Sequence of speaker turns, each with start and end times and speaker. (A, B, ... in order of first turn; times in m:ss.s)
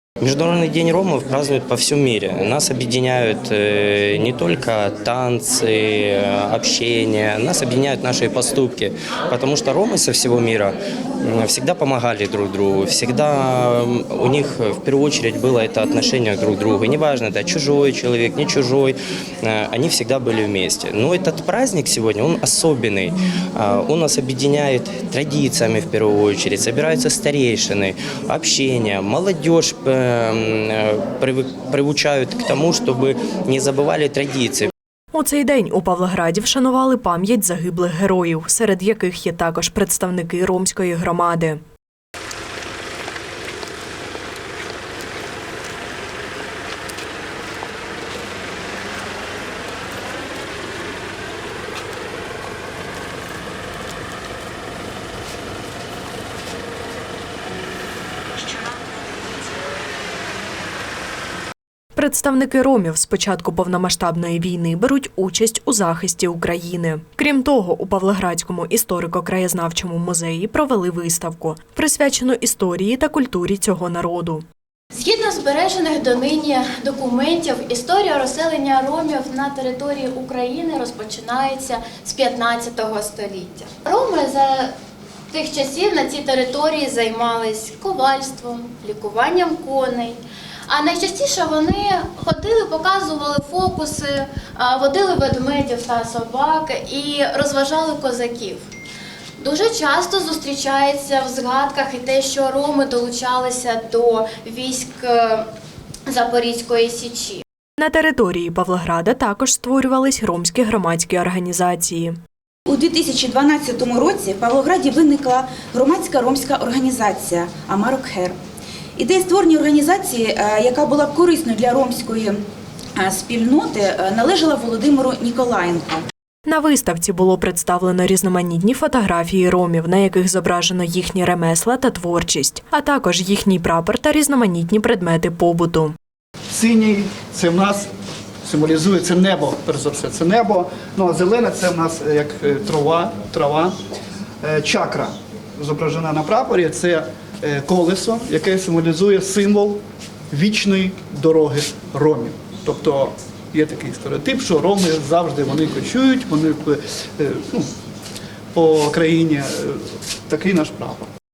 0:00.2-0:34.7 A
0:35.1-0:41.6 B
1:01.9-1:14.4 B
1:14.9-1:24.7 C
1:25.3-1:38.6 C
1:39.4-1:45.4 C
1:46.1-1:47.4 C
1:47.8-1:52.2 B
1:52.7-1:58.4 D
1:59.0-2:02.4 D
2:03.0-2:06.0 D
2:06.4-2:15.9 B
2:16.5-2:17.9 E
2:18.4-2:23.7 E
2:24.4-2:37.7 E
2:38.5-2:41.1 E